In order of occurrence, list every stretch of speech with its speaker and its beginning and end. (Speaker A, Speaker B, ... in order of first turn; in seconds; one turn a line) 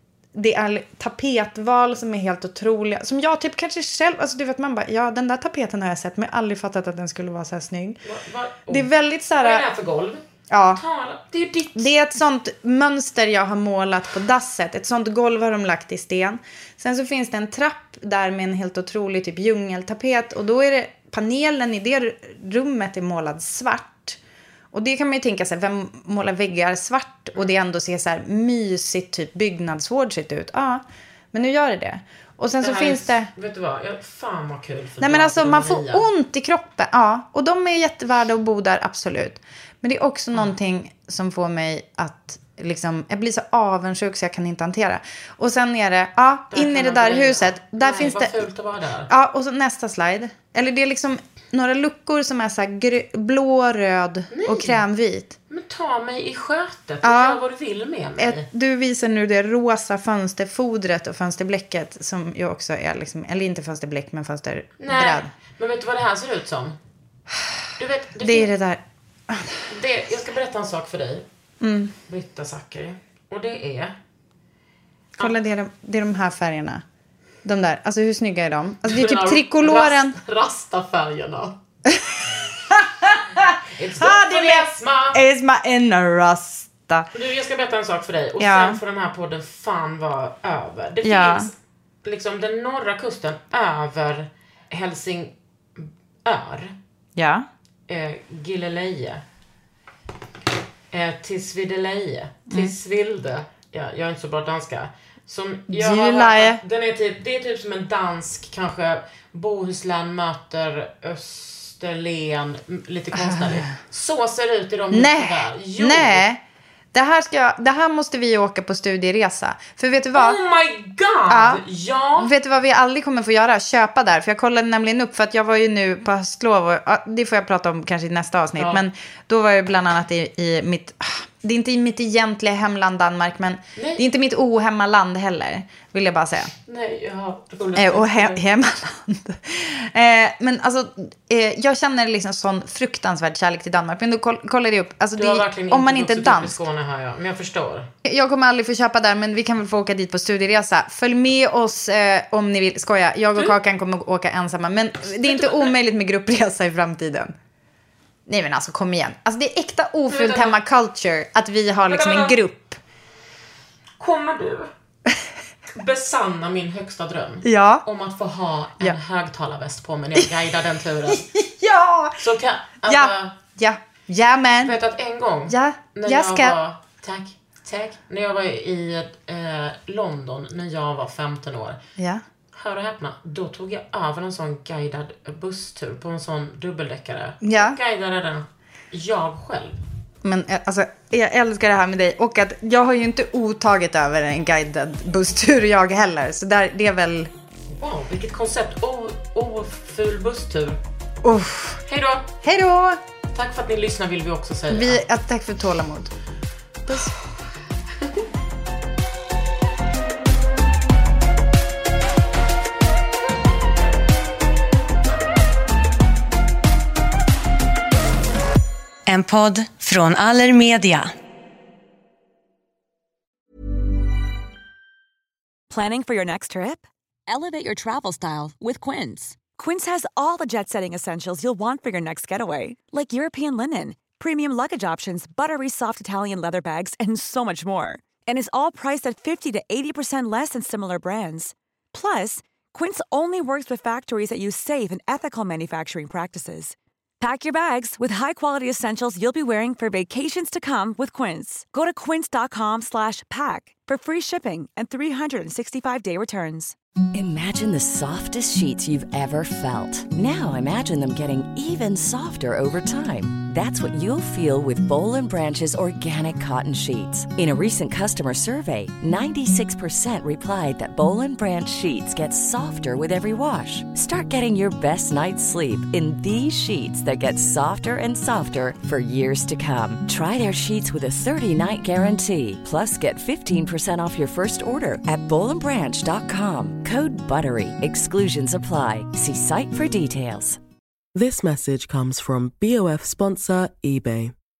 Speaker A: 0.3-8.0
Speaker B: 8.0-11.9
Speaker A: 8.7-9.6
Speaker A: 10.5-10.8
Speaker A: 11.7-24.2
Speaker A: 24.7-33.3
Speaker B: 32.6-36.0
Speaker A: 35.0-48.4
Speaker B: 46.5-49.1
Speaker A: 49.1-55.3
Speaker B: 54.3-54.8
Speaker B: 55.5-58.5
Speaker A: 57.0-57.4
Speaker A: 58.2-65.3
Speaker B: 64.8-66.8
Speaker B: 67.8-68.5
Speaker A: 68.2-69.5
Speaker B: 69.7-71.2
Speaker A: 71.6-71.9
Speaker B: 72.1-73.9
Speaker A: 75.2-76.8
Speaker A: 77.4-80.2
Speaker B: 78.8-81.5
Speaker A: 81.9-82.1
Speaker A: 82.7-87.1
Speaker B: 83.8-85.2
Speaker B: 87.1-91.5
Speaker A: 88.4-88.8
Speaker A: 91.0-91.5
Speaker B: 92.0-96.7
Speaker A: 97.2-97.5
Speaker B: 97.9-99.2
Speaker B: 100.9-116.2
Speaker A: 102.5-102.7
Speaker A: 105.7-106.6
Speaker A: 113.1-113.7
Speaker A: 114.9-116.4
Speaker A: 116.9-120.4
Speaker B: 120.1-122.3
Speaker A: 121.3-121.6
Speaker A: 122.2-136.5
Speaker B: 128.6-128.8
Speaker B: 133.8-134.0
Speaker B: 136.7-138.4
Speaker A: 137.8-146.6
Speaker B: 145.2-147.9
Speaker A: 148.0-157.3
Speaker B: 155.1-155.7
Speaker A: 158.3-162.8
Speaker B: 160.1-160.6
Speaker B: 161.9-162.4
Speaker B: 164.0-164.7
Speaker B: 165.7-171.3
Speaker A: 167.4-167.8
Speaker A: 171.1-172.2
Speaker B: 172.2-173.3
Speaker A: 172.8-174.7
Speaker B: 174.6-181.8
Speaker A: 175.5-176.5
Speaker A: 182.0-182.2
Speaker B: 182.5-189.8
Speaker A: 187.4-187.8
Speaker A: 190.2-197.3
Speaker B: 197.7-200.8
Speaker A: 201.2-201.8
Speaker B: 201.9-202.3
Speaker A: 202.4-203.0
Speaker B: 203.3-205.0
Speaker A: 204.7-206.1
Speaker C: 219.1-221.1
Speaker D: 225.7-256.8
Speaker E: 257.1-290.6
Speaker F: 291.1-294.3